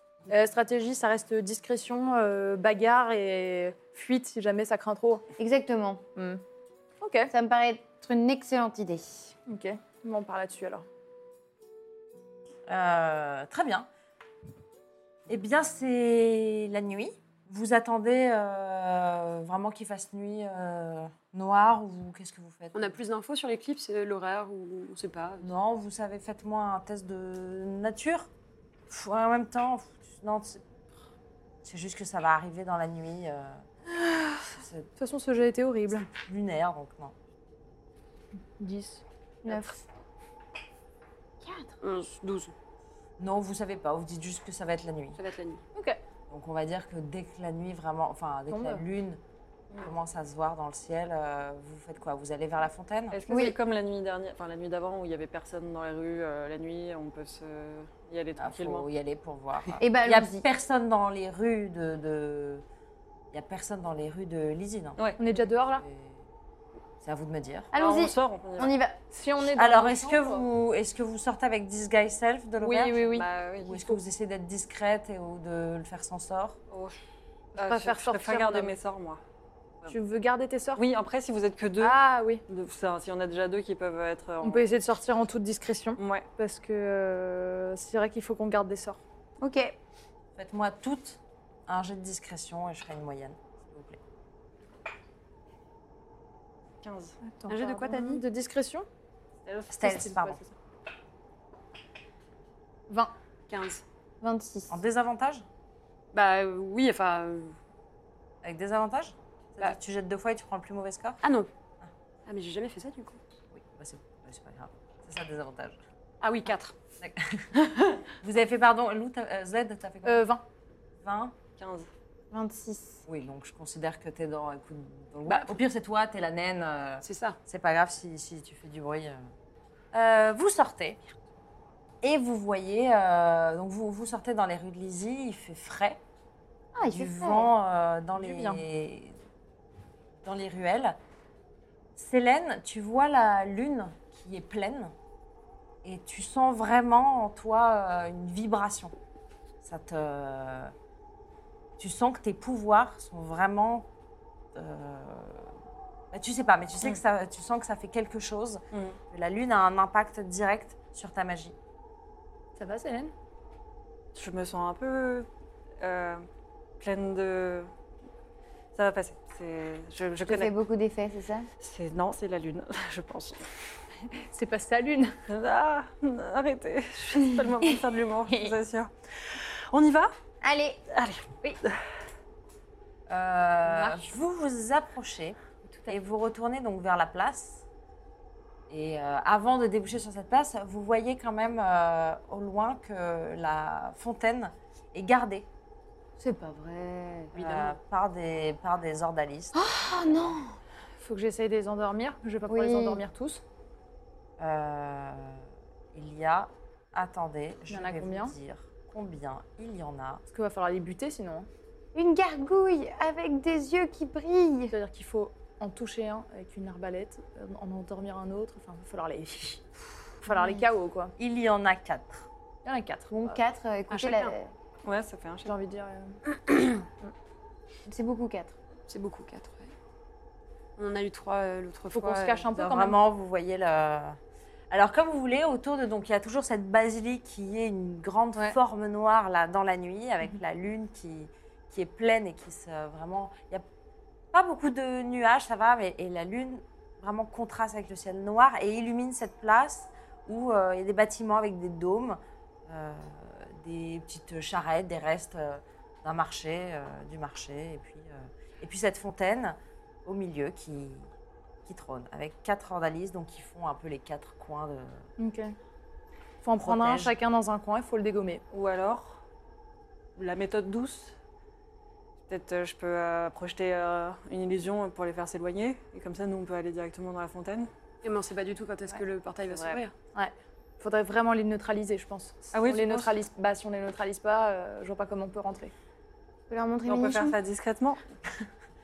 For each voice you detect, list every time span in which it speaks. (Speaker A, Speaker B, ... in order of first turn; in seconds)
Speaker A: 0.3-5.3, 6.2-6.4, 7.0-7.3, 9.5-10.8, 33.9-36.1, 38.6-39.8, 48.5-48.8, 65.2-65.8, 69.1-70.4, 72.6-73.3, 77.5-78.7, 79.9-80.8, 81.8-82.4, 84.4-89.0, 97.2-98.8, 99.8-100.4, 120.0-120.4, 138.2-138.6, 162.6-163.1, 174.1-175.2, 183.8-184.0, 201.0-203.4, 207.7-208.3, 210.3-211.5, 214.7-219.7, 220.2-221.1, 222.6-223.4, 225.4-226.2, 231.9-233.0, 265.2-265.5, 266.4-268.4, 280.1-285.7
Speaker B: 5.4-6.0, 7.3-9.3, 39.4-39.8, 41.4-41.7, 53.3-53.5, 59.8-60.4, 67.7-69.0, 89.4-89.8, 104.2-104.7, 122.3-123.0, 136.8-137.5, 170.2-171.5, 180.4-180.8, 196.2-197.3, 199.6-200.6, 202.5-203.0, 211.9-214.7, 220.3-220.6, 223.1-224.5, 227.8-228.5, 286.5-287.4
Speaker C: 12.7-13.9, 15.3-23.0, 25.4-28.3, 28.9-30.6, 31.6-33.6, 34.6-34.9, 36.2-37.1, 43.2-45.2, 46.3-49.2, 49.8-53.2, 58.4-62.6, 63.3-65.0, 65.7-66.2, 67.0-67.7, 69.5-73.1, 73.6-76.6, 90.3-94.0, 99.7-100.4, 104.7-105.4, 108.4-111.2, 113.5-115.8, 117.0-117.5, 118.2-120.3, 121.0-121.4, 123.1-129.2, 129.9-131.0, 132.0-136.0, 136.8-139.2, 140.2-141.0, 141.9-144.9, 145.8-148.9, 149.6-150.7, 151.8-153.9, 154.5-155.5, 156.1-161.6, 183.1-187.6, 188.7-195.5, 197.3-200.4, 204.4-210.2, 221.2-222.2, 232.5-234.2, 234.7-243.6, 244.3-261.1, 261.6-265.1, 266.6-267.1
Speaker D: 22.7-25.5, 41.8-42.5, 45.1-45.6, 97.5-98.2, 103.5-103.8, 106.1-107.5, 111.2-111.5, 112.2-113.2, 116.2-116.7, 125.3-125.6, 127.0-127.4, 223.9-224.3, 228.9-229.7, 230.8-232.5, 278.0-279.9
Speaker E: 53.1-58.9, 67.7-68.8, 73.1-73.8, 77.5-79.2, 80.8-84.7, 86.0-86.2, 96.8-97.2, 99.4-100.2, 121.6-121.9, 158.7-159.0, 164.1-165.3, 165.8-166.2, 166.8-167.7, 168.7-170.5, 171.6-173.4, 175.3-180.1, 180.9-181.4, 197.3-197.7, 224.8-225.5, 268.5-269.2, 270.1-271.1, 272.3-277.7, 279.5-279.8, 282.5-283.2, 286.9-288.0